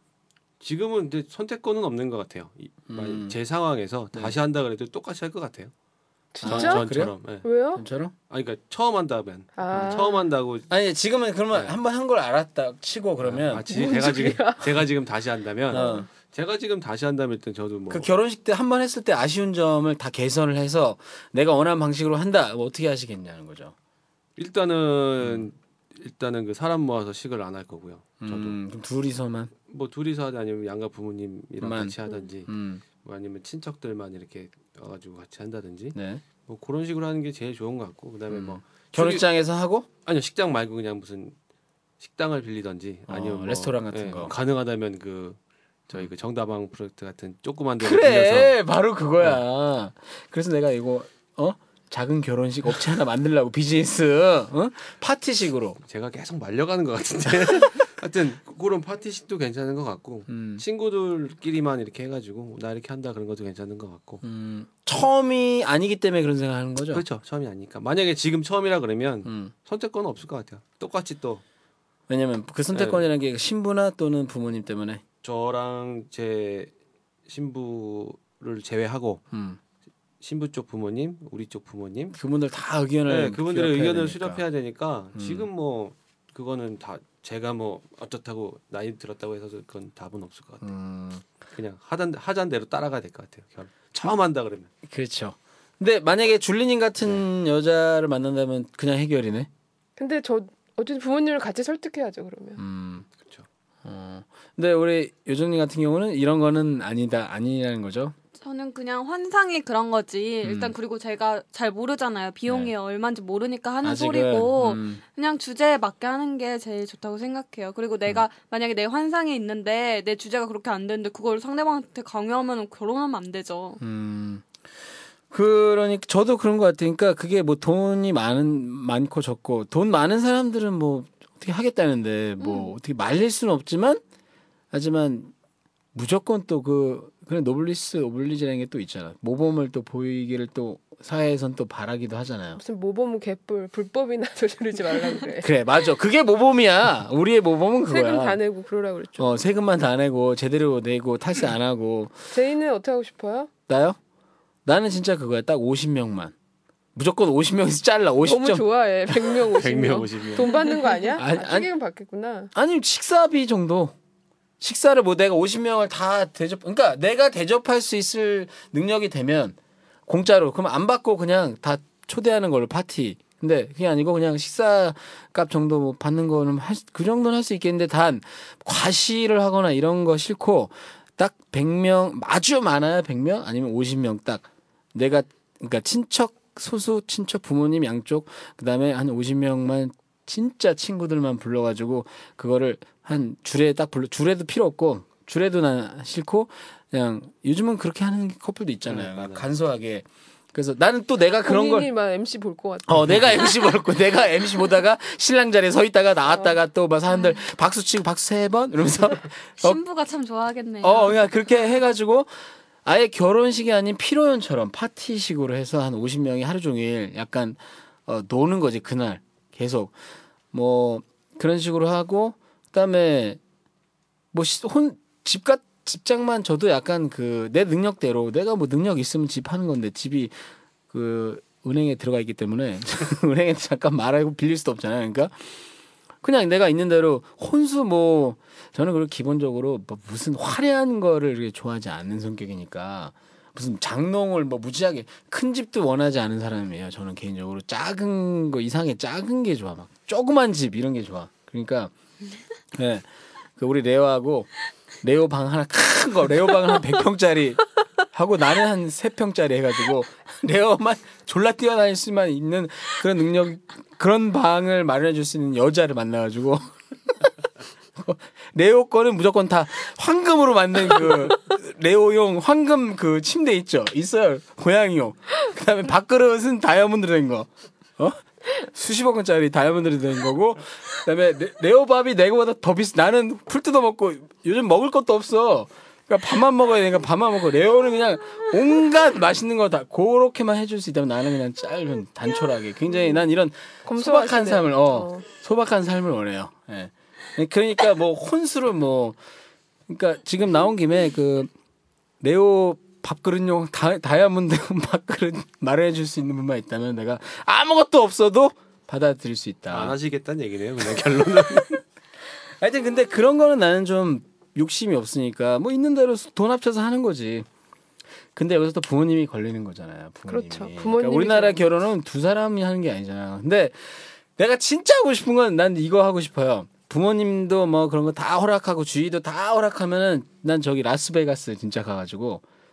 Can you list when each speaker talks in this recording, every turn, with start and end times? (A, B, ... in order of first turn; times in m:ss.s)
0:00.6-0:05.7 A
0:02.9-0:03.3 B
0:06.3-0:06.8 C
0:06.4-0:07.2 B
0:06.4-0:07.4 A
0:07.4-0:07.8 C
0:07.8-0:08.1 B
0:08.3-0:10.7 A
0:09.6-0:10.2 C
0:10.7-0:14.4 B
0:13.2-0:18.1 A
0:13.7-0:14.7 C
0:15.7-0:16.1 B
0:15.8-0:16.1 C
0:17.9-0:23.7 B
0:24.4-0:28.6 A
0:28.2-0:29.5 B
0:29.7-0:39.2 A
0:31.6-0:32.0 B
0:32.5-0:32.8 B
0:35.9-0:36.2 B
0:38.3-0:39.9 B
0:40.0-0:41.4 A
0:42.0-0:45.4 A
0:43.1-0:44.3 B
0:45.9-0:48.6 A
0:47.8-0:55.8 B
0:55.9-1:04.2 A
1:00.3-1:00.6 B
1:04.2-1:07.0 B
1:06.9-1:11.4 A
1:09.2-1:09.5 B
1:12.1-1:15.0 B
1:12.7-1:13.1 A
1:15.2-1:16.7 A
1:17.3-1:19.2 A
1:19.3-1:19.6 B
1:20.2-1:22.2 A
1:22.1-1:24.4 B
1:23.1-1:30.7 A
1:25.2-1:25.5 B
1:30.6-1:31.2 B
1:31.5-1:34.7 A
1:34.8-1:39.5 B
1:40.0-1:42.6 C
1:42.6-1:43.1 B
1:43.2-1:43.5 A
1:43.8-1:48.2 B
1:48.4-2:03.8 D
1:50.4-1:50.8 B
1:52.5-1:52.7 B
1:53.8-1:55.0 B
2:03.8-2:04.5 B
2:05.3-2:14.0 B
2:14.7-2:15.3 B
2:15.9-2:22.6 B
2:22.6-2:25.5 C
2:25.4-2:28.4 B
2:27.9-2:29.4 C
2:29.2-2:32.3 B
2:32.3-2:33.5 C
2:33.7-2:34.0 B
2:34.6-2:36.3 B
2:37.0-2:39.5 B
2:38.2-2:42.5 C
2:39.6-2:40.5 A
2:41.2-2:41.7 B
2:42.5-2:43.9 B
2:44.6-3:21.9 B
3:18.9-3:19.5 A
3:21.4-3:23.5 C
3:22.9-3:29.8 B
3:29.6-3:31.2 D
3:30.8-3:32.3 B
3:32.8-3:39.9 B
3:40.5-3:43.4 B
3:44.3-3:50.4 B
3:50.9-3:55.6 B
3:56.2-4:11.9 B
4:12.7-4:13.1 B
4:13.6-4:14.5 B
4:15.0-4:26.7 B
4:28.0-4:59.2 B
4:53.8-4:55.2 C
4:59.9-5:01.5 B
5:02.2-5:10.0 B
5:09.7-5:11.8 A
5:12.6-5:17.5 B
5:18.4-5:32.4 B
5:20.3-5:21.6 C